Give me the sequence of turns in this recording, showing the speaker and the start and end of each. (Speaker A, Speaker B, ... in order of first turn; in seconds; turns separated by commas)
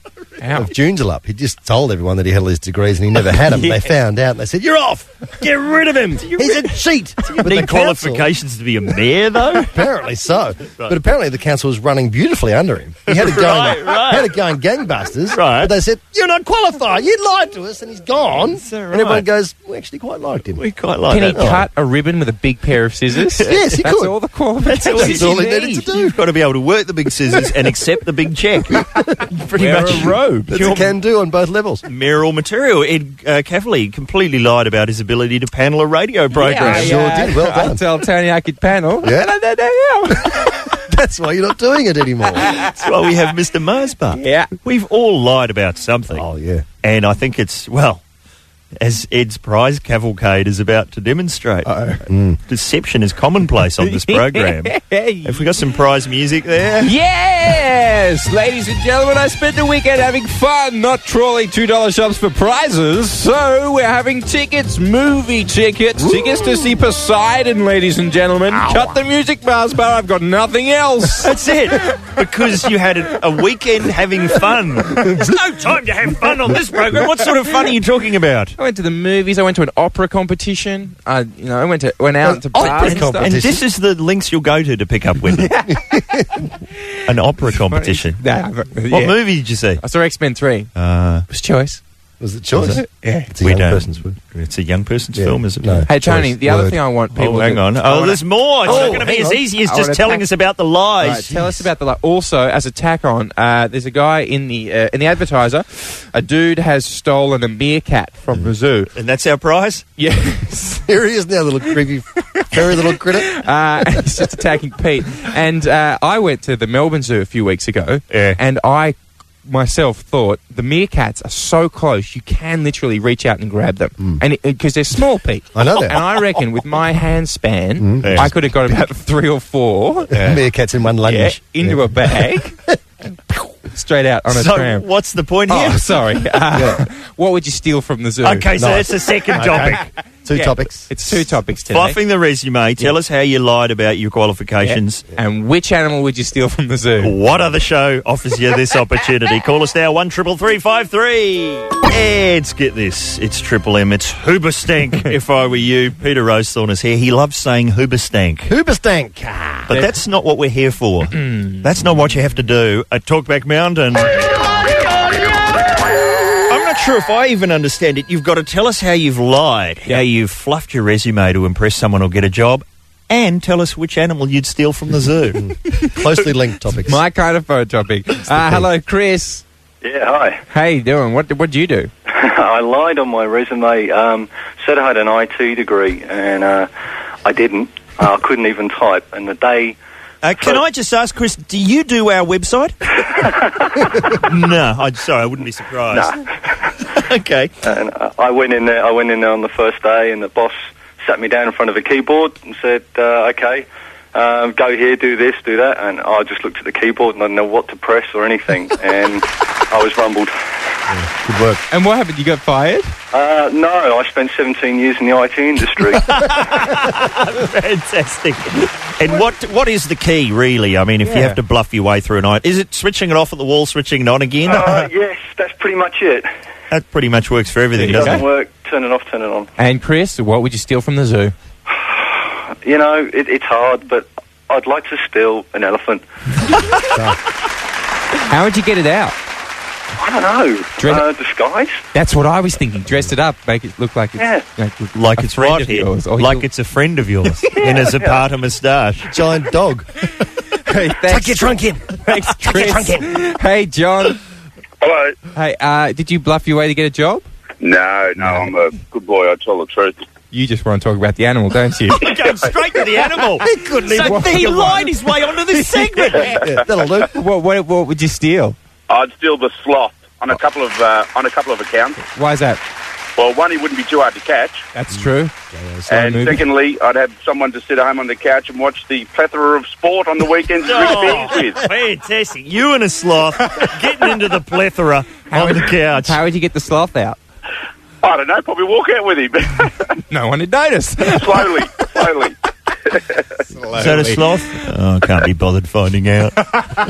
Speaker A: 0.4-0.7, Speaker B: 0.5-8.3, Speaker A: 3.5-3.9, Speaker C: 6.0-9.8, Speaker B: 9.6-20.6, Speaker C: 13.1-14.4, Speaker C: 15.3-15.7, Speaker C: 18.5-19.3, Speaker C: 20.6-21.6, Speaker A: 21.1-25.8, Speaker B: 21.2-21.6, Speaker C: 23.4-23.7, Speaker B: 23.4-24.1, Speaker C: 24.7-28.9, Speaker B: 24.9-26.2, Speaker B: 28.8-29.1, Speaker C: 29.4-30.9, Speaker A: 29.5-30.6, Speaker B: 30.5-31.8, Speaker C: 31.9-37.0, Speaker A: 36.3-40.6, Speaker B: 36.6-37.8, Speaker B: 39.0-39.3, Speaker B: 40.2-42.5, Speaker A: 42.4-42.7, Speaker C: 42.5-46.3, Speaker A: 44.1-44.5, Speaker B: 46.1-46.7, Speaker C: 46.8-48.0, Speaker C: 48.8-51.7, Speaker A: 51.6-52.0, Speaker B: 52.1-52.4, Speaker C: 52.5-56.9, Speaker A: 53.8-55.6, Speaker A: 56.8-71.3, Speaker B: 68.5-68.9, Speaker C: 71.2-78.5, Speaker B: 75.0-75.3, Speaker A: 78.6-83.3, Speaker B: 82.2-83.6, Speaker C: 82.6-85.5, Speaker A: 85.4-86.5, Speaker B: 85.7-86.4, Speaker C: 87.1-88.2, Speaker A: 87.7-89.2, Speaker C: 88.9-89.8, Speaker A: 89.8-90.7, Speaker C: 90.8-91.2, Speaker A: 91.3-91.8, Speaker B: 92.2-94.2, Speaker A: 92.6-93.3, Speaker C: 93.4-95.9, Speaker B: 95.2-96.8, Speaker A: 95.9-100.2, Speaker C: 97.1-101.5, Speaker B: 98.7-99.4, Speaker A: 101.0-108.9, Speaker C: 109.0-109.8, Speaker A: 110.0-110.8, Speaker B: 110.9-113.4, Speaker A: 113.2-130.3, Speaker C: 118.1-118.4, Speaker B: 125.5-126.2, Speaker B: 127.8-128.3, Speaker C: 128.0-128.3, Speaker B: 130.1-132.8, Speaker A: 131.0-132.6, Speaker A: 133.7-134.8, Speaker C: 134.3-136.1, Speaker A: 135.5-138.5, Speaker B: 136.5-136.8, Speaker C: 138.2-139.9, Speaker B: 138.6-140.9, Speaker A: 140.3-142.0, Speaker C: 141.7-145.0, Speaker A: 144.6-147.2, Speaker C: 147.0-158.5, Speaker B: 158.5-159.8, Speaker C: 159.7-164.3, Speaker A: 161.2-161.7, Speaker C: 166.5-175.4, Speaker B: 175.3-177.0, Speaker A: 176.7-179.4, Speaker B: 178.3-178.7, Speaker D: 179.8-180.4, Speaker A: 180.5-181.9, Speaker D: 182.1-186.7, Speaker D: 187.2-189.8, Speaker C: 190.2-193.2, Speaker D: 193.2-194.1, Speaker C: 194.1-196.2, Speaker D: 195.9-196.7, Speaker C: 196.9-197.5, Speaker D: 197.6-210.3, Speaker B: 210.9-211.6, Speaker A: 211.7-212.9, Speaker D: 213.1-216.1, Speaker C: 216.0-224.9, Speaker A: 221.1-221.4, Speaker D: 224.4-226.3, Speaker C: 226.7-228.3, Speaker A: 227.8-228.2, Speaker D: 227.9-229.5, Speaker A: 229.6-231.3, Speaker D: 231.7-236.0, Speaker B: 236.8-237.2, Speaker A: 238.3-239.2, Speaker D: 240.0-241.8, Speaker A: 240.8-241.1, Speaker A: 241.9-246.4, Speaker D: 244.2-244.5, Speaker C: 244.9-249.1, Speaker D: 247.6-248.2, Speaker B: 249.1-249.9, Speaker A: 250.6-251.5, Speaker B: 251.1-253.2, Speaker A: 252.1-254.2, Speaker E: 254.8-255.2, Speaker A: 255.3-257.3, Speaker E: 257.6-260.0, Speaker A: 258.2-258.5, Speaker A: 260.3-262.1, Speaker C: 261.9-266.4, Speaker B: 263.7-264.8, Speaker A: 263.8-264.9, Speaker B: 266.2-267.1, Speaker A: 267.1-268.6, Speaker E: 268.9-272.0, Speaker A: 272.0-272.6, Speaker E: 273.2-274.6, Speaker A: 274.7-275.3, Speaker B: 275.5-276.1, Speaker A: 275.9-276.4, Speaker E: 275.9-281.7, Speaker C: 280.6-286.2, Speaker A: 285.3-287.2, Speaker E: 288.0-289.9, Speaker A: 290.1-291.5, Speaker E: 291.1-292.4, Speaker E: 292.9-293.2, Speaker A: 293.5-294.2, Speaker C: 293.8-296.5